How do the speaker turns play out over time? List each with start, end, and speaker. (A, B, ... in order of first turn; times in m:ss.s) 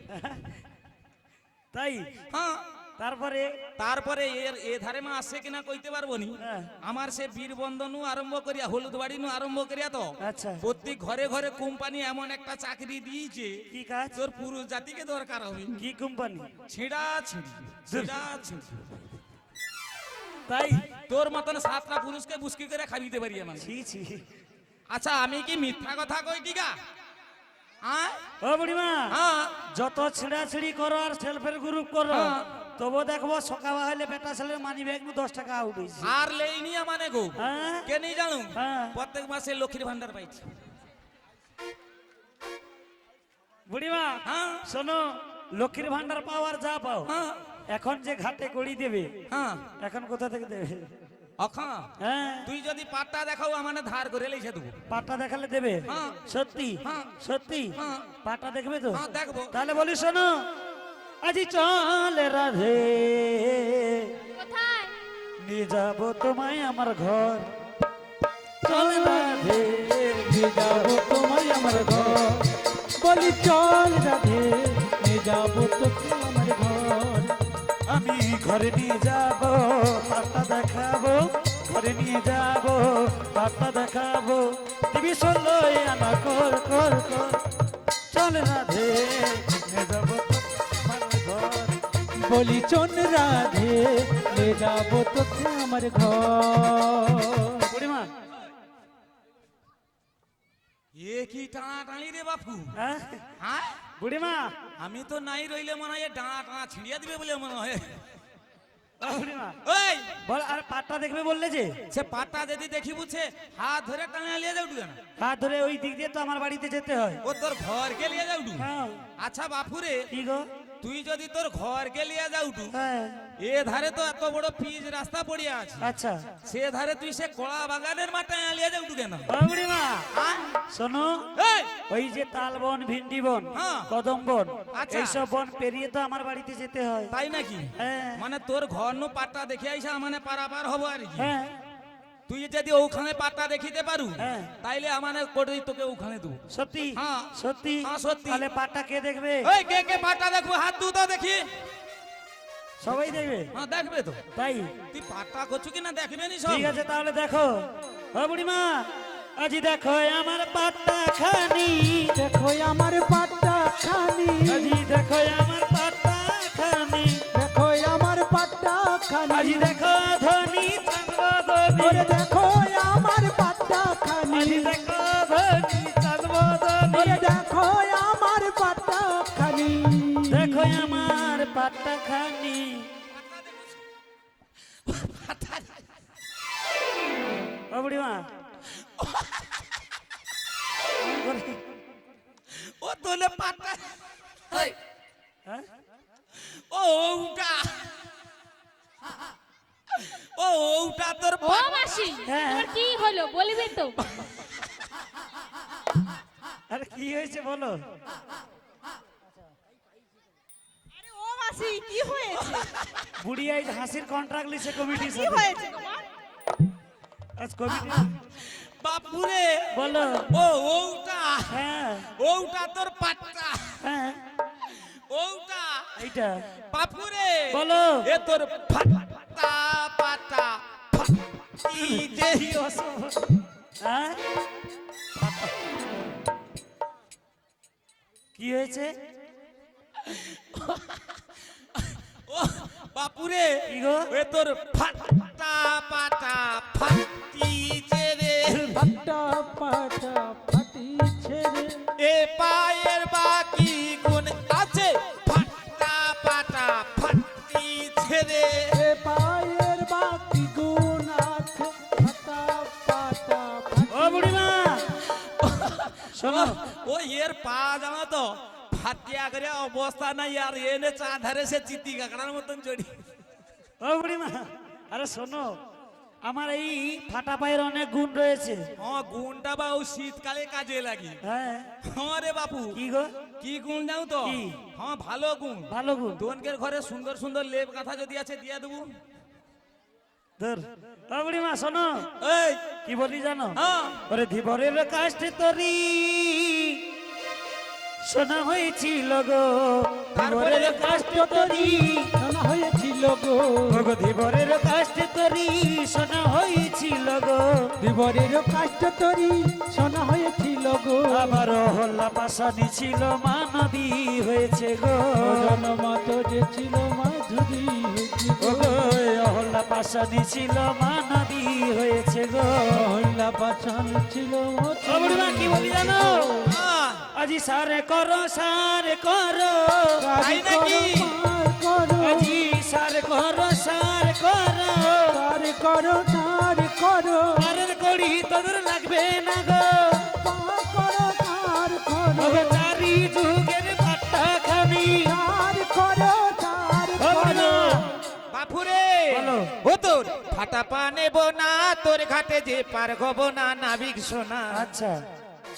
0:00.1-0:00.6 A
0:01.7-0:02.1 A
0:02.3-0:02.6 B
0:03.0-0:03.5 A
0:03.8-0:13.6 B
0:06.4-0:06.7 A
0:10.2-0:10.6 A
0:13.7-0:14.2 A
0:14.2-0:15.7 B
0:15.7-0:16.5 A
0:16.7-0:19.0 B
0:17.9-0:18.2 A
0:20.5-0:20.9 A
0:21.1-0:23.7 B
0:23.6-0:24.2 A
0:24.9-0:26.8 B
0:27.8-0:28.2 B
0:28.4-0:36.1 A
0:29.1-0:29.6 B
0:32.1-0:32.5 B
0:36.0-0:40.6 B
0:37.4-0:37.9 A
0:38.5-0:39.0 A
0:43.7-0:47.1 A
0:44.3-0:44.7 B
0:47.1-0:47.4 B
0:47.7-0:49.1 A
0:49.3-0:49.7 B
0:49.8-0:50.9 A
0:51.4-0:51.9 B
0:52.0-0:52.5 A
0:52.4-0:54.8 B
0:54.9-1:00.3 A
0:55.9-0:56.2 B
0:56.8-0:57.1 B
0:57.8-0:58.1 B
0:58.9-0:59.5 B
1:01.2-1:04.2 A
1:04.3-1:04.9 C
1:05.4-1:07.5 A
1:08.7-1:12.2 A
1:08.7-1:17.4 D
1:17.9-1:27.4 A
1:28.1-1:31.8 A
1:32.2-1:37.7 D
1:37.7-1:38.1 A
1:41.0-1:42.7 B
1:42.8-1:43.2 A
1:43.4-1:43.8 B
1:44.0-1:44.5 A
1:44.8-1:48.0 B
1:49.0-1:49.6 A
1:49.6-1:50.2 B
1:50.2-1:51.8 A
1:51.9-1:55.0 B
1:55.2-1:57.2 A
1:57.2-1:58.6 B
1:58.6-1:59.0 A
1:59.2-2:00.1 B
2:00.1-2:00.5 A
2:00.8-2:02.7 B
2:02.7-2:03.2 A
2:03.4-2:05.9 B
2:05.8-2:06.2 A
2:06.4-2:09.3 B
2:09.3-2:10.1 A
2:10.1-2:10.5 B
2:10.7-2:11.3 A
2:11.4-2:11.7 B
2:11.9-2:17.1 A
2:13.6-2:13.9 B
2:14.7-2:15.2 B
2:17.1-2:21.3 B
2:17.8-2:18.2 A
2:21.2-2:21.5 A
2:22.3-2:26.4 B
2:24.2-2:24.5 A
2:26.5-2:29.5 A
2:27.0-2:27.3 B
2:27.8-2:28.4 B
2:29.4-2:31.5 B
2:32.8-2:33.5 A
2:33.5-2:34.2 B
2:34.3-2:34.7 A
2:34.9-2:36.7 B
2:36.5-2:37.6 A
2:38.1-2:42.2 A
2:42.2-2:44.8 D
2:44.5-2:47.2 A
2:47.3-2:49.8 D
2:49.3-2:52.1 A
2:51.8-2:54.8 D
2:54.3-2:57.2 A
2:56.9-3:01.2 D
3:00.3-3:02.9 A
3:04.9-3:05.8 B
3:07.7-3:08.3 A
3:09.0-3:09.3 B
3:11.0-3:11.6 A
3:12.5-3:13.9 B
3:16.4-3:17.9 B
3:19.9-3:22.0 B
3:21.4-3:24.0 C
3:22.2-3:22.7 A
3:26.7-3:27.8 A
3:30.9-3:32.7 E
3:33.2-3:35.5 A
3:34.8-3:36.1 E
3:37.4-3:38.1 A
3:37.9-3:41.6 B
3:39.7-3:40.3 A
3:41.5-3:42.1 A
3:42.2-3:43.8 B
3:43.8-3:44.2 A
3:44.7-3:46.0 B
3:46.0-3:46.4 A
3:46.7-3:52.7 B
3:47.5-3:48.1 A
3:51.7-3:53.3 A
3:53.8-3:54.2 A
3:55.2-3:55.5 A
3:58.4-3:58.9 A
4:00.0-4:01.2 B
4:01.8-4:08.7 B
4:03.7-4:04.1 A
4:08.5-4:08.8 A
4:08.7-4:11.9 D
4:12.0-4:18.8 B
4:18.7-4:24.4 D
4:23.9-4:24.9 A
4:25.1-4:33.0 B
4:26.1-4:26.6 A
4:33.8-4:35.6 A
4:36.2-4:38.6 A
4:38.8-4:41.2 B
4:41.2-4:41.7 A
4:41.8-4:42.8 B
4:42.7-4:43.1 A
4:43.4-4:48.9 B
4:44.2-4:44.6 A
4:45.7-4:46.2 A
4:50.4-4:52.1 A
4:52.2-4:52.6 B
4:52.8-4:56.8 A
4:53.6-4:54.0 B
4:58.0-5:02.1 A
5:00.2-5:01.0 B
5:00.9-5:03.9 D
5:03.7-5:07.7 A
5:07.8-5:11.4 D
5:11.1-5:15.6 A
5:15.2-5:18.8 D
5:18.4-5:22.8 A
5:22.7-5:26.6 D
5:24.9-5:26.3 A
5:26.5-5:27.0 B
5:27.1-5:30.0 A
5:30.0-5:32.4 D
5:30.2-5:31.1 B
5:32.0-5:35.2 A
5:35.1-5:37.4 D
5:37.4-5:40.1 A
5:40.2-5:42.7 D
5:42.2-5:45.1 A
5:45.0-5:48.0 D
5:47.0-5:47.8 A
5:48.3-5:54.7 B
5:49.1-5:49.5 A
5:54.5-5:55.0 A